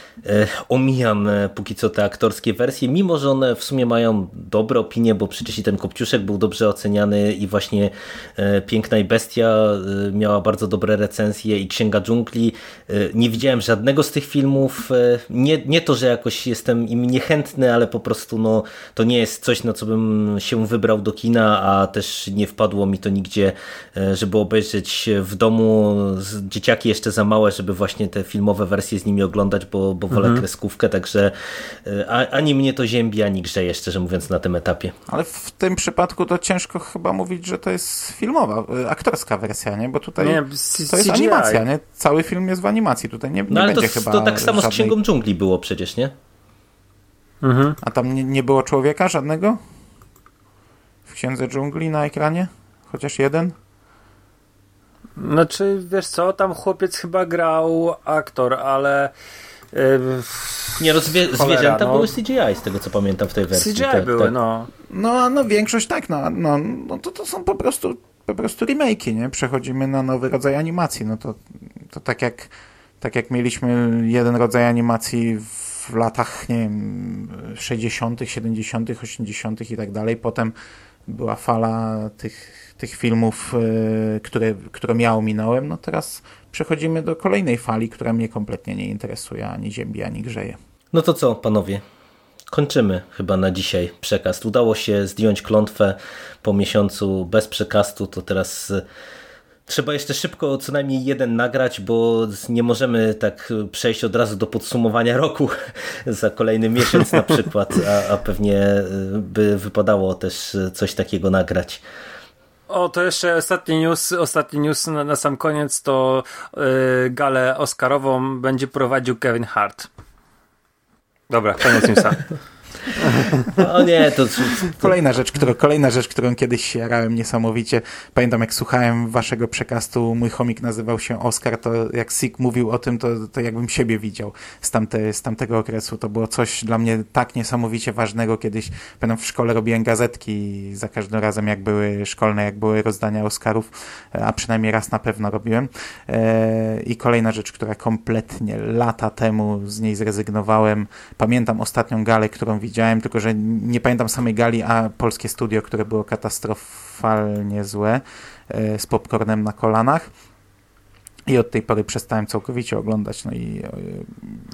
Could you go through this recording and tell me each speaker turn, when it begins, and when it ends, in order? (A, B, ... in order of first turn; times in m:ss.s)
0:00.2-0:34.9 A
0:30.1-0:30.4 B
0:35.1-0:45.0 C
0:40.2-0:41.6 B
0:43.5-0:46.1 A
0:47.4-0:47.8 B
0:47.8-0:49.6 C
0:51.1-0:53.6 C
0:55.2-0:59.1 B
0:59.7-1:02.1 B
1:00.8-1:04.3 A
1:03.5-1:04.7 B
1:04.9-1:20.5 C
1:21.1-1:30.6 C
1:30.9-1:31.8 A
1:32.5-1:38.8 A
1:39.7-1:51.8 A
1:52.7-1:59.9 B
2:01.3-2:02.3 B
2:03.0-2:03.5 B
2:03.5-2:05.0 A
2:04.7-2:40.1 C
2:41.3-2:44.4 C